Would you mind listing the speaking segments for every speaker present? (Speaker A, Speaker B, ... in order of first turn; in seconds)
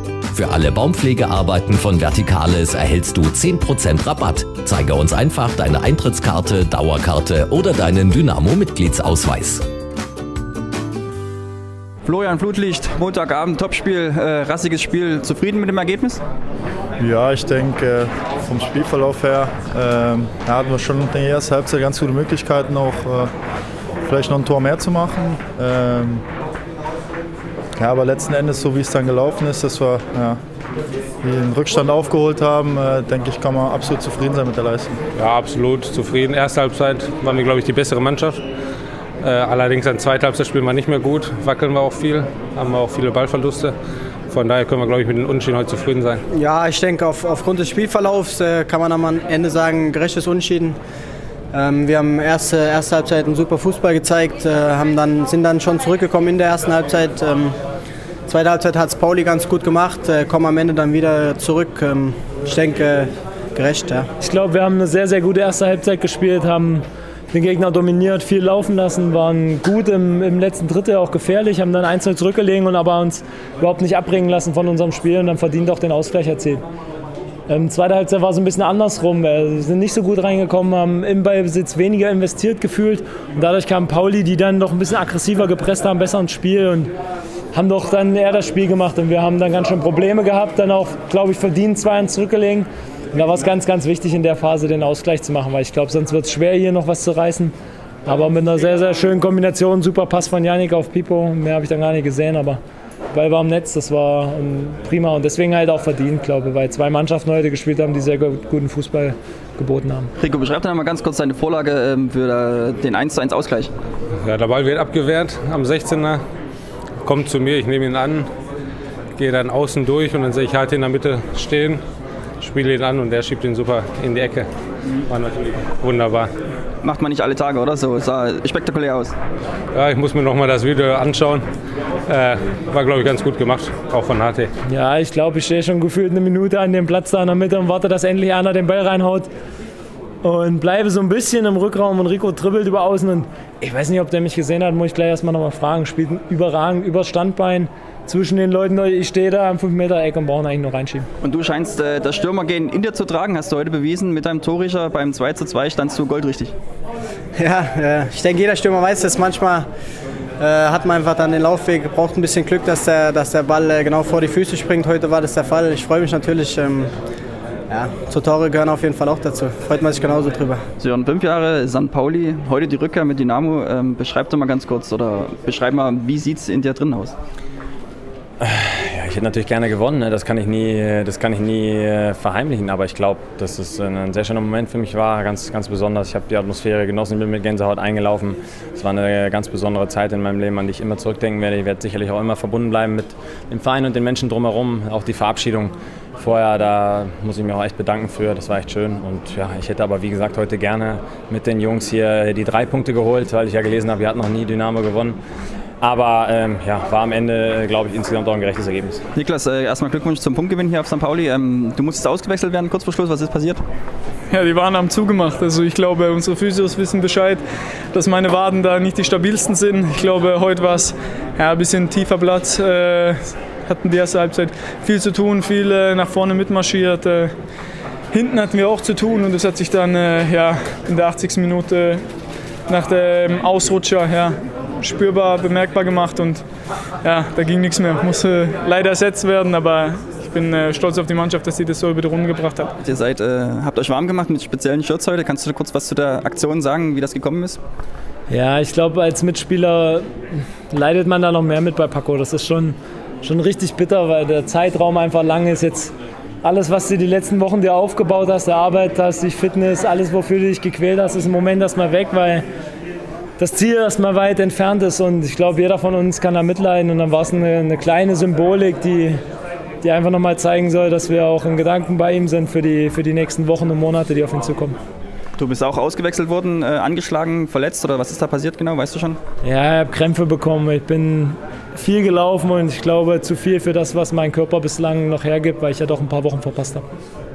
Speaker A: 0.3-9.6
Speaker B: 12.1-16.2, 110.2-113.7, 126.8-129.1, 151.2-156.5, 170.8-177.1, 209.2-213.6, 242.8-247.6, 275.4-279.2
Speaker C: 17.0-23.3, 24.1-26.2, 27.8-30.4, 31.2-35.0
Speaker D: 35.2-38.4, 39.2-43.7, 44.3-46.2, 114.2-116.2, 117.0-118.3, 119.2-121.8, 122.4-124.5, 125.1-126.3, 129.7-131.5, 132.1-134.5
Speaker E: 46.3-50.8, 51.5-57.6, 58.3-64.1, 157.3-159.7, 160.4-166.9, 167.7-170.7
Speaker F: 64.2-76.6, 77.5-86.9, 87.5-97.5, 98.1-102.6, 103.1-110.1, 134.7-139.3, 140.2-151.1, 248.3-250.1, 250.7-262.4, 263.4-269.2, 269.8-274.8, 279.4-286.9
Speaker G: 178.4-205.2, 205.8-209.0
Speaker H: 214.3-227.3, 228.1-232.0, 232.7-236.4, 237.0-242.8